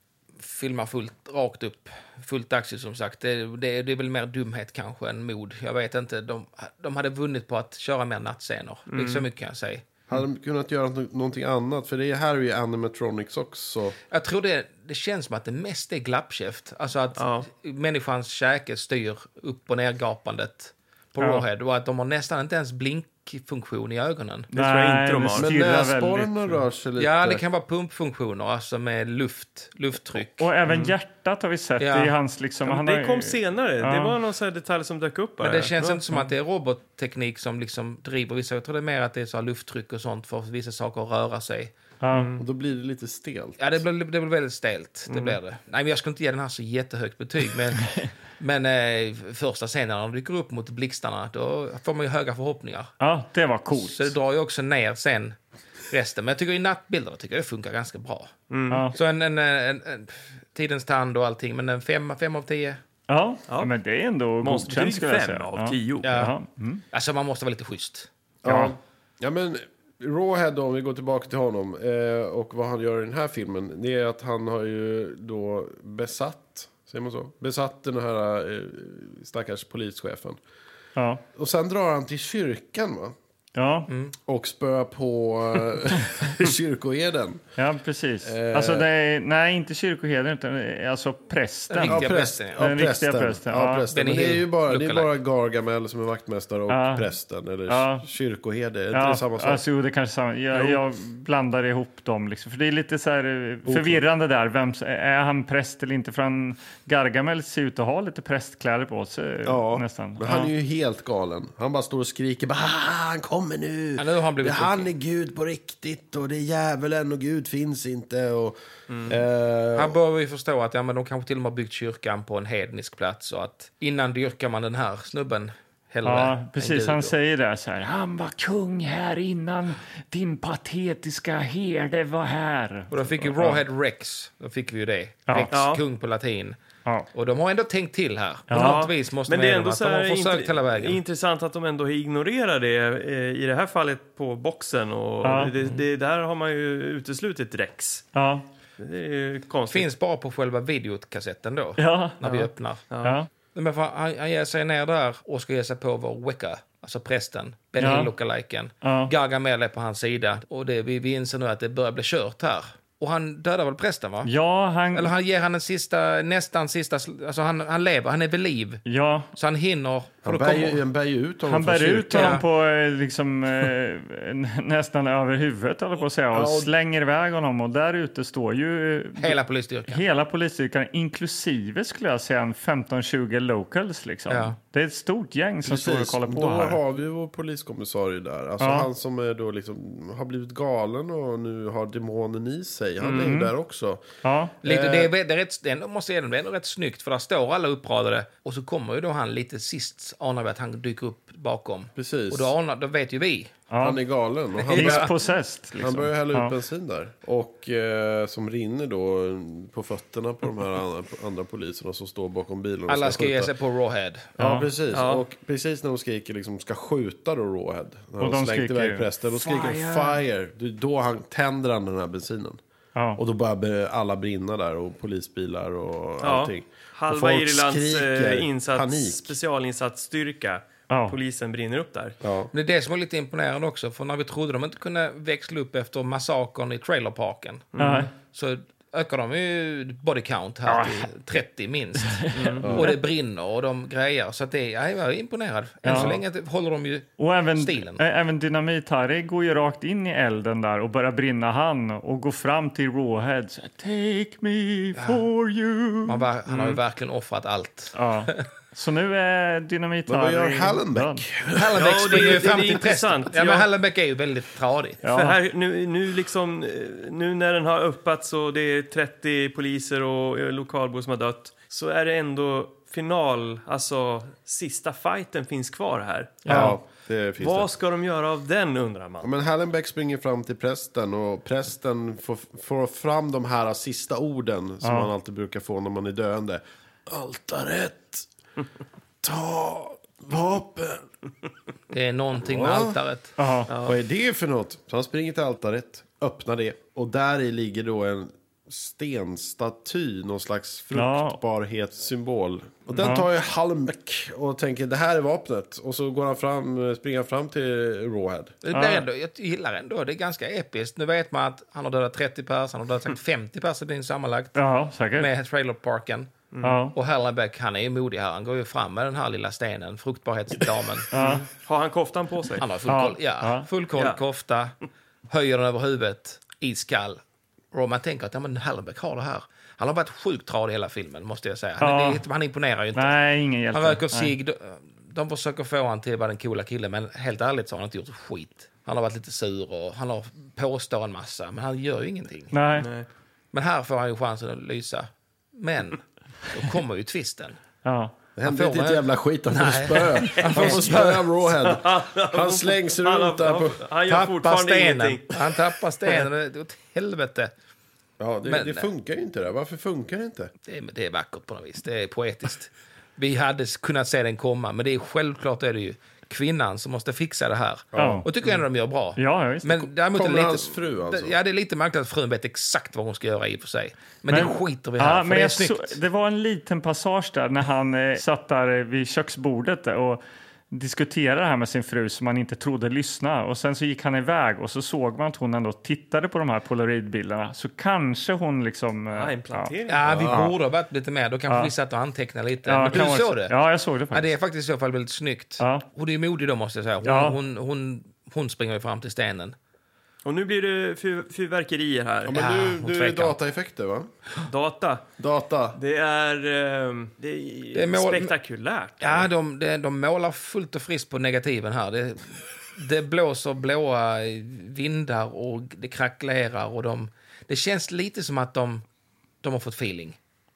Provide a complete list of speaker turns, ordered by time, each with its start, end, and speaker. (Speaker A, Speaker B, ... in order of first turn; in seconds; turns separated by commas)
Speaker A: 0.4-9.9, Speaker B: 8.9-9.3, Speaker C: 10.1-14.0, Speaker A: 14.1-24.5, Speaker B: 17.2-17.5, Speaker D: 21.2-21.4, Speaker B: 24.5-25.5, Speaker D: 24.5-26.6, Speaker C: 25.4-27.4, Speaker A: 27.0-30.5, Speaker D: 30.4-34.1, Speaker B: 30.7-31.0, Speaker A: 31.8-32.1, Speaker B: 32.6-36.0, Speaker A: 35.4-41.7, Speaker D: 42.0-42.3, Speaker B: 42.1-42.4, Speaker C: 42.4-43.7, Speaker A: 43.6-52.9, Speaker B: 45.1-45.4, Speaker D: 53.0-54.1, Speaker A: 53.7-55.4, Speaker A: 55.9-58.3, Speaker B: 58.5-58.9, Speaker D: 58.7-59.0, Speaker A: 58.9-62.8, Speaker D: 63.1-66.8, Speaker B: 63.5-63.7, Speaker B: 64.4-66.2, Speaker A: 66.0-66.3, Speaker A: 66.9-68.1, Speaker C: 68.4-80.4, Speaker D: 68.5-68.7, Speaker D: 81.0-81.2, Speaker C: 81.4-83.2, Speaker D: 83.6-83.9, Speaker A: 83.9-84.1, Speaker C: 84.3-87.4, Speaker D: 87.6-93.9, Speaker C: 88.2-88.9, Speaker A: 91.7-92.6, Speaker C: 91.8-99.6, Speaker A: 93.9-95.1, Speaker D: 96.7-97.1, Speaker D: 97.7-98.1, Speaker D: 98.9-110.5, Speaker C: 100.5-100.8, Speaker C: 103.7-104.0, Speaker C: 109.4-120.0, Speaker A: 114.0-114.9, Speaker B: 118.9-119.2, Speaker A: 119.8-127.2, Speaker D: 126.0-133.6, Speaker A: 132.9-136.6, Speaker B: 135.5-135.8, Speaker A: 137.1-141.0, Speaker D: 138.5-138.8, Speaker B: 138.5-148.1, Speaker D: 145.2-145.5, Speaker D: 148.2-148.4, Speaker B: 148.8-149.9, Speaker A: 149.7-152.8, Speaker D: 151.8-152.2, Speaker B: 152.2-153.2, Speaker D: 153.0-153.3, Speaker A: 153.5-164.3, Speaker D: 157.8-158.1, Speaker D: 158.8-159.1, Speaker D: 164.2-165.1, Speaker A: 164.9-168.8, Speaker D: 168.8-169.3, Speaker A: 169.3-170.8, Speaker C: 170.2-172.4, Speaker D: 171.5-179.4, Speaker A: 172.1-172.4, Speaker C: 176.3-176.7, Speaker A: 179.2-180.0, Speaker D: 179.9-186.8, Speaker A: 184.3-184.6, Speaker C: 185.6-194.1, Speaker D: 188.6-188.9, Speaker D: 193.0-193.5, Speaker D: 194.2-194.6, Speaker C: 194.6-195.1, Speaker A: 194.6-203.5, Speaker C: 201.9-202.5, Speaker D: 203.7-204.0, Speaker C: 203.8-205.1, Speaker A: 204.6-205.1, Speaker D: 204.7-206.5, Speaker C: 205.8-213.5, Speaker A: 212.9-214.3, Speaker D: 214.4-214.7, Speaker C: 214.4-222.6, Speaker B: 214.9-215.2, Speaker D: 218.2-220.2, Speaker D: 223.0-223.2, Speaker C: 223.2-229.3, Speaker B: 226.2-232.2, Speaker D: 230.9-231.2, Speaker C: 232.2-232.5, Speaker A: 232.5-237.7, Speaker B: 237.7-238.1, Speaker D: 237.8-238.1, Speaker A: 238.3-248.0, Speaker D: 240.7-241.1, Speaker D: 242.1-242.9, Speaker B: 242.3-242.7, Speaker C: 242.6-243.0, Speaker D: 245.8-246.2, Speaker D: 247.2-256.7, Speaker A: 255.0-255.2, Speaker A: 256.1-258.4, Speaker D: 257.9-261.2, Speaker C: 260.1-262.3, Speaker A: 261.5-265.0, Speaker B: 261.8-263.7, Speaker D: 265.0-265.4, Speaker B: 265.1-276.5, Speaker A: 276.5-276.8, Speaker D: 276.5-276.8, Speaker C: 276.5-277.7, Speaker B: 277.4-279.3, Speaker C: 279.2-288.3, Speaker D: 284.8-285.1, Speaker C: 289.2-291.1, Speaker A: 291.9-293.3, Speaker C: 292.4-293.0, Speaker D: 293.4-293.7, Speaker B: 293.7-294.0, Speaker C: 293.8-308.6, Speaker D: 300.9-301.4, Speaker D: 303.0-303.3, Speaker A: 308.6-314.6, Speaker D: 308.7-309.1, Speaker D: 314.6-315.3, Speaker A: 315.1-316.3, Speaker B: 316.5-316.8, Speaker D: 316.6-317.0, Speaker A: 316.9-321.1, Speaker B: 321.1-322.7, Speaker D: 321.1-321.4, Speaker A: 322.6-324.8, Speaker D: 322.9-323.7, Speaker A: 325.3-327.2, Speaker A: 327.7-333.2, Speaker D: 331.8-332.2, Speaker D: 332.9-334.3, Speaker A: 333.7-342.6, Speaker D: 342.5-342.9, Speaker B: 342.8-343.1, Speaker A: 343.5-347.6, Speaker D: 347.9-348.1, Speaker C: 348.4-353.9, Speaker A: 348.4-351.3, Speaker B: 350.3-356.2, Speaker A: 354.1-357.5, Speaker C: 358.2-360.5, Speaker A: 358.5-358.9, Speaker A: 360.6-376.0, Speaker C: 367.9-368.3, Speaker D: 368.0-368.3, Speaker D: 369.2-369.9, Speaker C: 370.1-371.4, Speaker D: 374.3-389.7, Speaker B: 389.1-390.1, Speaker A: 389.9-393.6, Speaker C: 390.1-390.5, Speaker D: 392.7-394.3, Speaker A: 394.1-399.6, Speaker D: 395.6-395.9, Speaker D: 397.0-397.4, Speaker B: 400.2-402.4, Speaker C: 402.2-404.1, Speaker A: 402.3-403.4, Speaker B: 404.5-405.1, Speaker C: 405.2-405.8, Speaker B: 405.8-409.3, Speaker A: 407.7-408.3, Speaker A: 409.0-418.8, Speaker A: 419.4-420.2